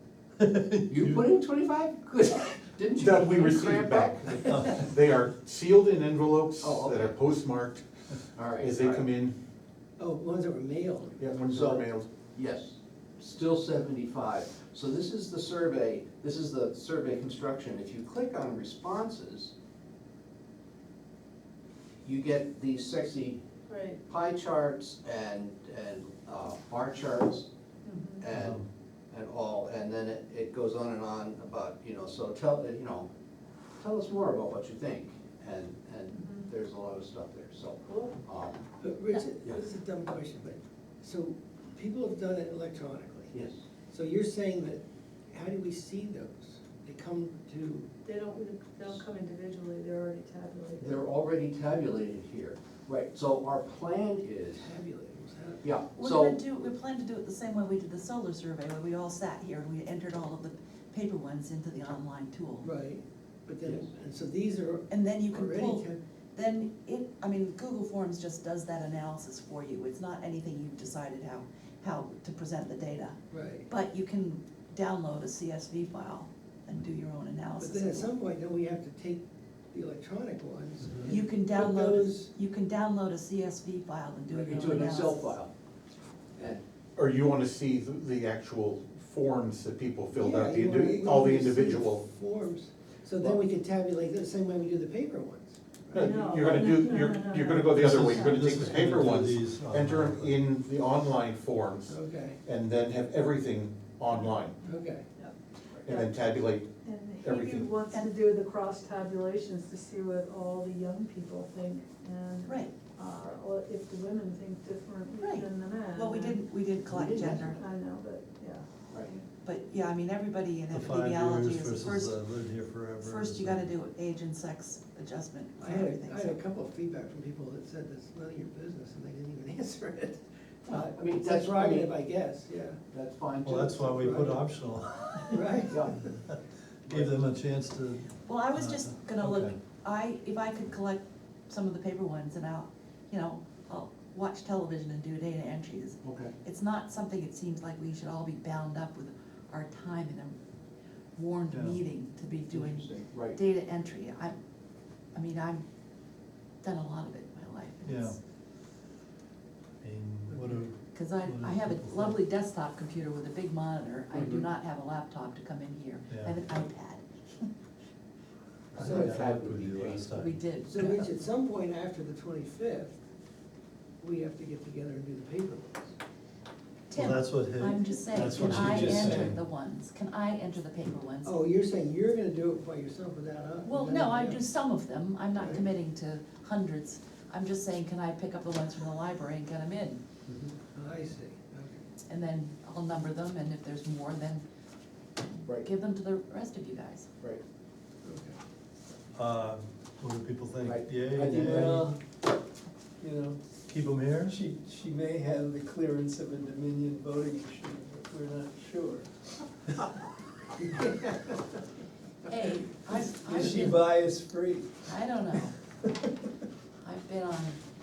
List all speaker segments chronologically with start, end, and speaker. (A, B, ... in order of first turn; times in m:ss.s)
0:00.4-0:01.2 A
0:00.9-0:04.4 B
0:03.0-0:07.8 C
0:04.4-0:04.8 A
0:06.6-0:07.1 B
0:08.3-0:09.1 B
0:08.6-0:09.3 C
0:10.0-0:11.2 D
0:11.2-0:12.1 C
0:11.5-0:11.8 B
0:12.3-0:19.5 B
0:22.0-0:23.4 B
0:23.7-0:24.0 E
0:24.0-0:27.5 B
0:27.8-0:28.2 E
0:28.2-0:33.1 B
0:28.3-0:28.7 A
0:33.8-0:38.6 B
0:36.1-0:36.5 E
0:37.9-0:38.2 E
0:38.8-0:43.3 D
0:43.3-0:43.6 B
0:43.9-0:47.9 D
0:48.0-0:51.0 E
0:50.8-0:54.7 B
0:54.6-0:55.7 D
0:55.6-0:56.4 B
0:55.9-1:02.7 F
1:02.6-1:06.0 D
1:04.9-1:18.1 F
1:13.3-1:13.7 D
1:17.6-1:22.3 D
1:20.9-1:21.1 B
1:21.1-1:25.4 F
1:24.3-1:24.8 D
1:24.3-1:25.5 B
1:26.4-1:26.6 B
1:27.0-1:32.0 C
1:30.1-1:36.5 D
1:35.9-1:44.6 C
1:36.0-1:38.4 E
1:37.7-1:40.4 A
1:41.9-1:42.4 D
1:44.6-1:45.0 D
1:45.2-1:46.1 E
1:45.8-1:46.7 C
1:46.8-1:56.4 E
1:47.2-1:47.7 C
1:52.4-1:52.7 F
1:55.2-1:57.6 F
1:56.9-1:57.6 B
1:57.1-1:59.2 E
1:59.4-2:02.3 F
2:00.7-2:03.7 A
2:03.0-2:06.4 F
2:05.6-2:12.8 D
2:10.7-2:11.9 B
2:12.9-2:13.8 B
2:13.4-2:15.6 A
2:13.8-2:14.4 D
2:15.3-2:16.1 D
2:15.7-2:16.1 B
2:16.3-2:19.5 A
2:16.9-2:17.2 B
2:18.2-2:30.4 F
2:26.0-2:26.3 B
2:31.1-2:34.4 F
2:31.5-2:31.8 A
2:32.5-2:33.4 B
2:35.1-2:35.6 F
2:36.6-2:38.2 F
2:37.8-2:38.2 A
2:39.8-2:42.2 A
2:40.9-2:47.5 F
2:44.1-2:44.4 B
2:46.1-2:46.4 A
2:48.7-2:50.1 B
2:48.7-2:50.5 A
2:48.8-2:49.1 D
2:50.1-2:51.0 F
2:50.7-2:53.0 D
2:54.0-2:55.9 D
2:56.9-3:01.3 F
2:56.9-2:59.4 A
2:58.4-2:59.0 G
3:01.2-3:04.4 D
3:03.6-3:10.0 F
3:05.4-3:05.6 D
3:10.3-3:10.6 B
3:10.7-3:11.8 D
3:12.1-3:14.4 F
3:15.5-3:17.1 F
3:18.0-3:18.4 D
3:19.1-3:22.0 A
3:20.6-3:21.8 B
3:21.3-3:22.0 G
3:23.0-3:23.4 G
3:23.7-3:24.4 A
3:24.2-3:29.1 G
3:32.3-3:33.8 F
3:32.9-3:35.4 G
3:34.9-3:35.5 F
3:36.8-3:37.6 F